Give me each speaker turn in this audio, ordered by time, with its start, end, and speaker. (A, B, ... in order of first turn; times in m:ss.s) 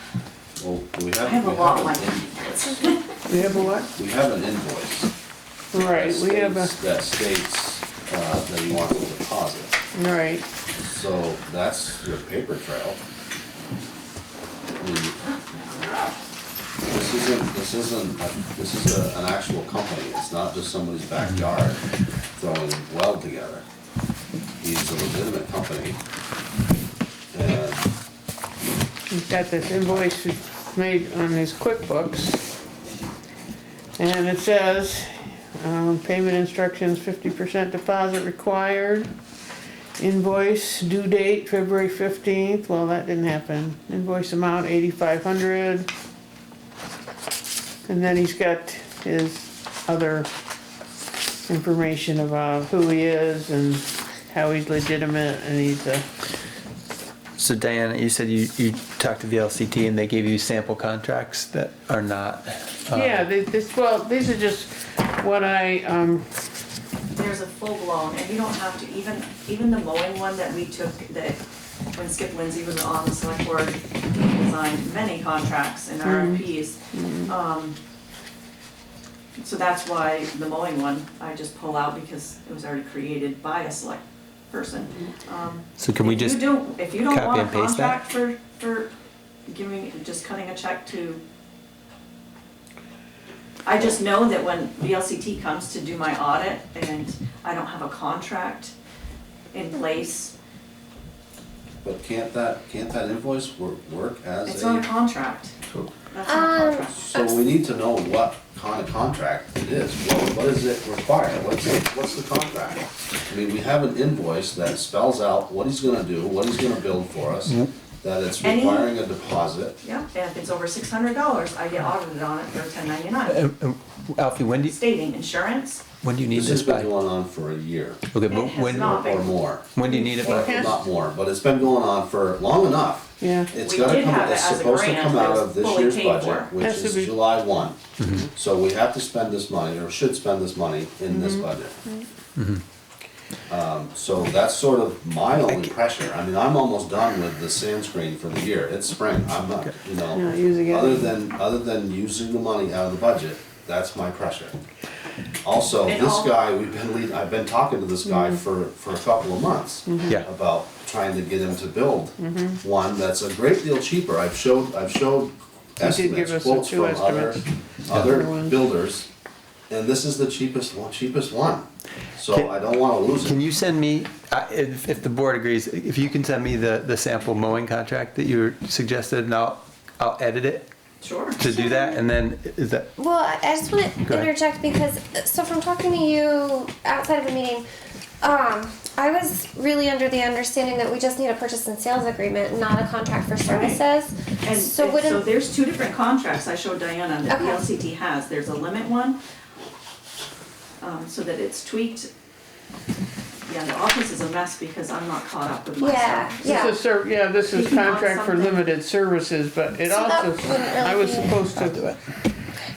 0:00.6-0:02.8 A
0:01.2-0:03.1 B
0:03.2-0:03.9 C
0:03.9-0:05.1 A
0:05.7-0:06.7 C
0:05.7-0:09.8 A
0:09.9-0:10.4 C
0:10.8-0:13.0 A
0:14.8-0:15.2 A
0:16.9-0:21.8 A
0:22.3-0:23.6 A
0:24.6-0:26.0 A
0:27.3-0:27.9 A
0:29.1-0:32.4 C
0:34.0-0:39.1 C
0:40.0-0:45.9 C
0:47.9-0:50.3 C
0:51.5-0:56.0 C
0:57.4-1:03.2 D
1:02.9-1:06.2 C
1:07.2-1:11.4 B
1:11.9-1:17.8 B
1:16.0-1:17.3 C
1:19.4-1:28.9 B
1:25.8-1:26.4 D
1:27.0-1:28.0 D
1:29.5-1:31.2 B
1:33.6-1:38.7 B
1:39.5-1:40.3 B
1:41.8-1:44.8 A
1:44.4-1:45.5 B
1:46.1-1:47.1 B
1:46.3-1:47.4 E
1:47.1-1:59.8 A
1:58.4-1:59.0 B
1:59.8-2:03.4 B
2:03.3-2:04.7 D
2:04.6-2:05.8 B
2:06.0-2:06.9 D
2:06.3-2:08.0 A
2:08.1-2:09.0 D
2:08.3-2:09.4 B
2:08.7-2:17.8 A
2:09.7-2:10.7 D
2:09.8-2:10.8 C
2:13.2-2:13.5 C
2:13.6-2:16.5 B
2:16.6-2:17.1 C
2:18.0-2:18.3 D
2:18.3-2:21.8 A
2:21.1-2:21.5 C
2:22.4-2:22.6 D
2:23.5-2:34.6 A
2:30.1-2:31.1 C
2:35.4-2:49.1 A
2:35.8-2:36.3 B
2:38.0-2:38.4 C
2:39.9-2:40.2 C
2:42.2-2:42.6 C
2:45.8-2:47.4 C
2:48.0-2:48.6 C
2:49.7-2:51.6 A
2:52.2-2:53.4 A
2:53.2-3:00.7 D
3:01.0-3:01.4 B
3:01.4-3:02.9 D
3:01.4-3:02.0 E
3:03.0-3:07.6 E
3:04.0-3:04.3 D
3:08.2-3:15.2 E
3:13.4-3:13.8 B
3:14.4-3:19.2 B
3:17.3-3:17.6 E
3:20.8-3:22.1 B
3:23.4-3:26.8 B
3:25.8-3:26.8 E
3:26.4-3:32.1 C
3:27.5-3:28.6 B
3:29.8-3:31.4 E